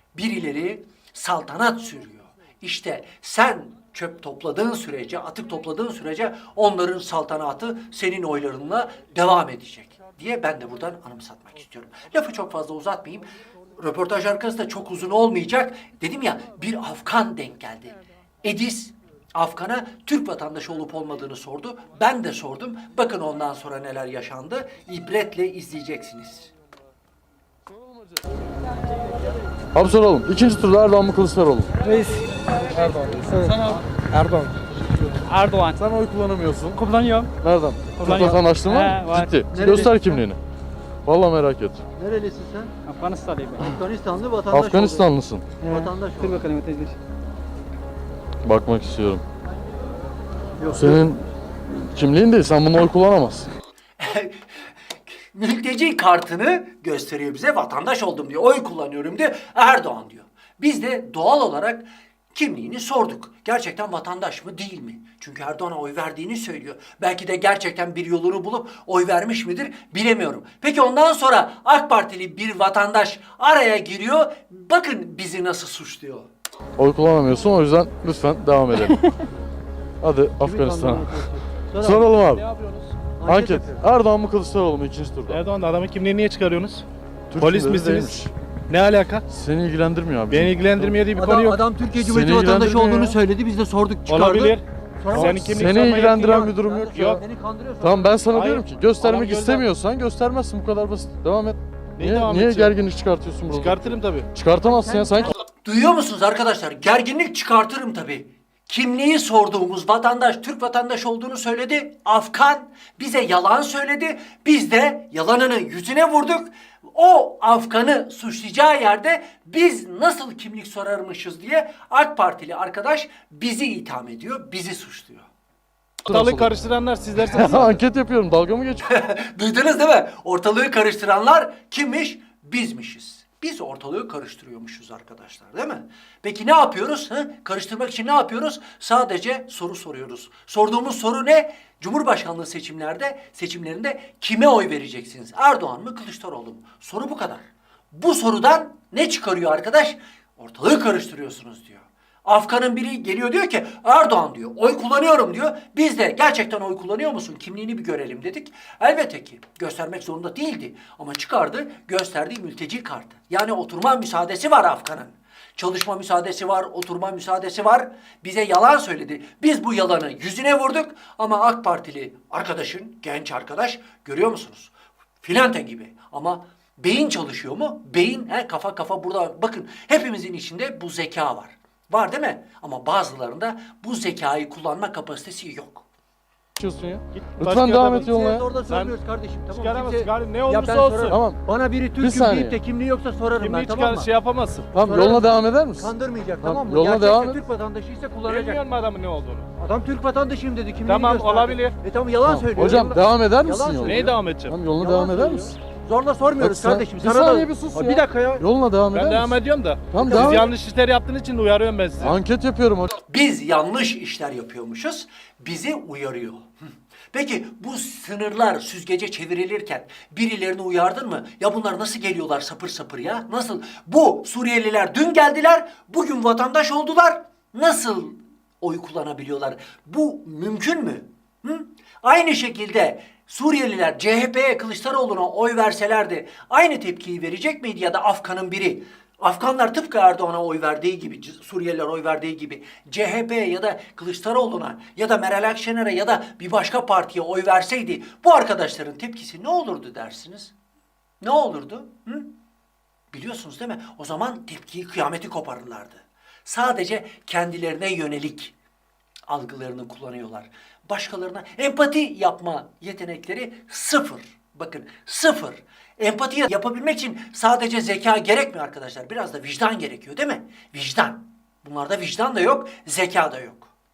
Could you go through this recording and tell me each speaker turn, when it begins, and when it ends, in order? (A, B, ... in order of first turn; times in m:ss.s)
0:00.1-0:26.5 A
0:27.7-0:28.2 B
0:29.7-0:31.7 B
0:32.7-0:33.8 B
0:35.3-0:35.8 C
0:35.8-0:36.8 B
0:36.7-0:37.3 C
0:37.4-0:40.4 B
0:38.0-0:39.4 C
0:39.5-0:40.2 A
0:41.0-0:41.8 B
0:42.0-0:42.7 A
0:42.8-0:43.7 C
0:43.6-0:45.1 A
0:44.5-0:45.5 B
0:45.6-0:47.0 C
0:45.7-0:46.4 A
0:48.4-0:49.2 B
0:50.6-0:51.0 A
0:50.7-0:51.2 B
0:51.9-0:53.5 B
0:54.0-0:54.5 A
0:55.1-1:16.3 A
1:16.8-1:19.0 B
1:20.0-1:21.1 B
1:20.4-1:22.2 A
1:21.8-1:22.4 B
1:22.4-1:22.8 D
1:23.2-1:23.8 A
1:23.3-1:25.4 B
1:25.3-1:26.8 D
1:27.3-1:28.3 B
1:27.4-1:28.2 D
1:28.7-1:29.2 D
1:29.3-1:31.0 B
1:30.3-1:31.6 D
1:31.2-1:38.3 A
1:32.0-1:33.2 B
1:34.1-1:37.2 D
1:35.1-1:37.2 B
1:37.8-1:45.4 B
1:38.3-1:39.6 D
1:42.0-1:42.8 D
1:43.5-1:44.3 D
1:44.6-2:05.3 A
2:06.0-2:06.5 B
2:06.1-2:07.8 D
2:07.2-2:08.8 B
2:08.8-3:05.8 A
3:06.6-3:08.5 B
3:07.2-3:09.0 D
3:08.1-3:14.1 A
3:09.5-3:11.2 D
3:11.1-3:11.4 B
3:12.0-3:12.6 B
3:13.4-3:14.7 D
3:14.7-3:15.9 B
3:14.8-3:18.6 A
3:16.4-3:17.4 B
3:18.3-3:19.5 D
3:19.6-3:24.2 A
3:20.8-3:21.8 D
3:22.3-3:25.6 B
3:23.8-3:24.6 D
3:24.8-3:28.5 A
3:26.4-3:29.4 B
3:28.9-3:32.2 D
3:29.9-3:30.5 B
3:32.0-3:32.9 B
3:33.1-3:36.5 A
3:37.1-4:10.5 A
4:11.2-4:12.3 A
4:13.1-4:18.5 A
4:19.3-4:33.7 A